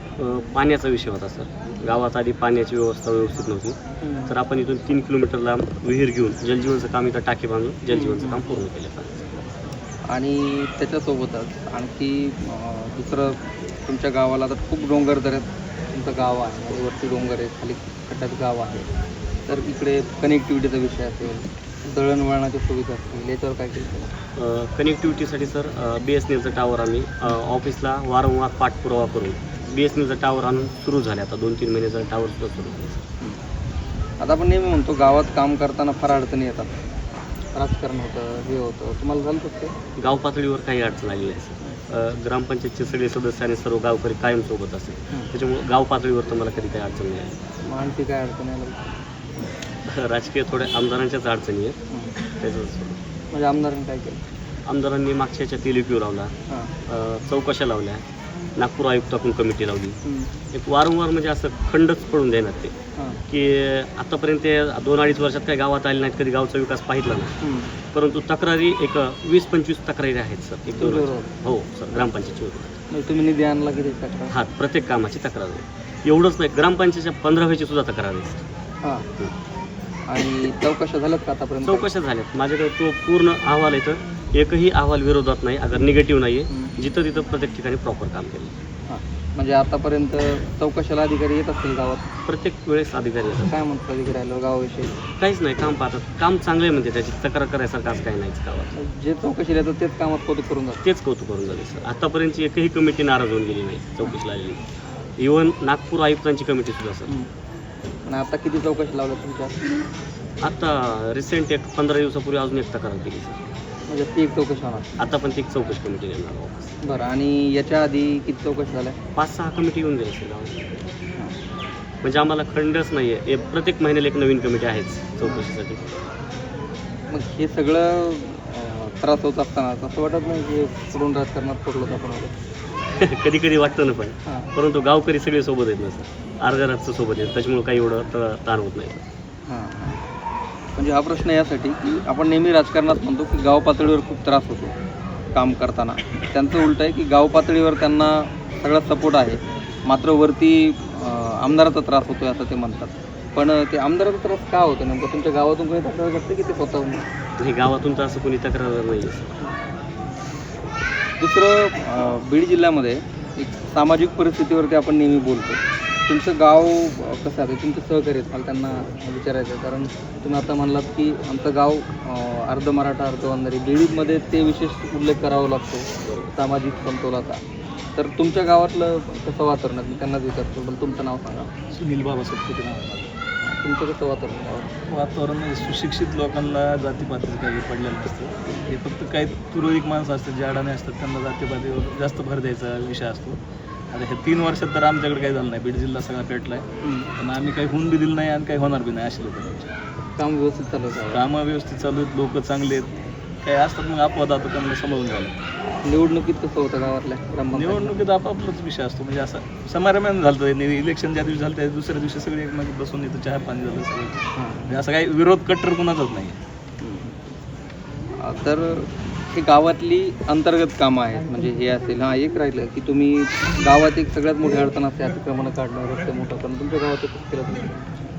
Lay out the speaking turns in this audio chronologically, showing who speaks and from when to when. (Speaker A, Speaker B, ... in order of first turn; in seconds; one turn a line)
Speaker A: 0.2-9.4
Speaker B: 4.0-4.3
Speaker B: 7.9-8.6
Speaker B: 10.1-18.9
Speaker B: 19.5-24.1
Speaker A: 24.4-33.0
Speaker B: 34.2-36.7
Speaker B: 37.5-39.7
Speaker A: 40.0-47.3
Speaker B: 47.6-48.9
Speaker A: 49.9-51.8
Speaker A: 52.4-53.0
Speaker B: 53.3-54.2
Speaker A: 54.6-56.3
Speaker A: 56.9-58.0
Speaker A: 58.6-60.0
Speaker B: 60.0-60.3
Speaker A: 60.5-62.7
Speaker A: 63.3-67.3
Speaker B: 67.4-67.7
Speaker A: 67.9-72.8
Speaker B: 70.7-71.3
Speaker B: 72.9-74.3
Speaker A: 74.3-78.4
Speaker B: 80.1-81.9
Speaker A: 81.6-88.5
Speaker B: 88.9-92.0
Speaker A: 92.2-93.5
Speaker B: 93.4-95.0
Speaker A: 95.2-98.7
Speaker B: 98.7-100.8
Speaker A: 100.8-104.6
Speaker A: 105.2-107.1
Speaker B: 108.0-109.5
Speaker A: 110.4-113.5
Speaker B: 113.9-114.9
Speaker A: 115.0-116.7
Speaker B: 116.8-119.0
Speaker A: 119.2-120.6
Speaker A: 122.0-125.8
Speaker B: 127.1-132.3
Speaker A: 132.9-139.0
Speaker B: 139.5-140.0
Speaker B: 140.8-144.7
Speaker B: 145.3-157.1
Speaker A: 157.4-159.3
Speaker B: 161.2-177.4
Speaker A: 176.0-176.3
Speaker B: 177.9-181.5
Speaker C: 181.7-183.1
Speaker B: 183.6-184.7
Speaker C: 184.8-193.4
Speaker C: 193.9-199.7
Speaker B: 196.8-197.1
Speaker B: 200.2-201.3
Speaker C: 201.1-205.4
Speaker B: 205.8-208.0
Speaker C: 207.5-216.4
Speaker B: 214.3-214.8
Speaker B: 216.8-217.1
Speaker B: 218.2-228.0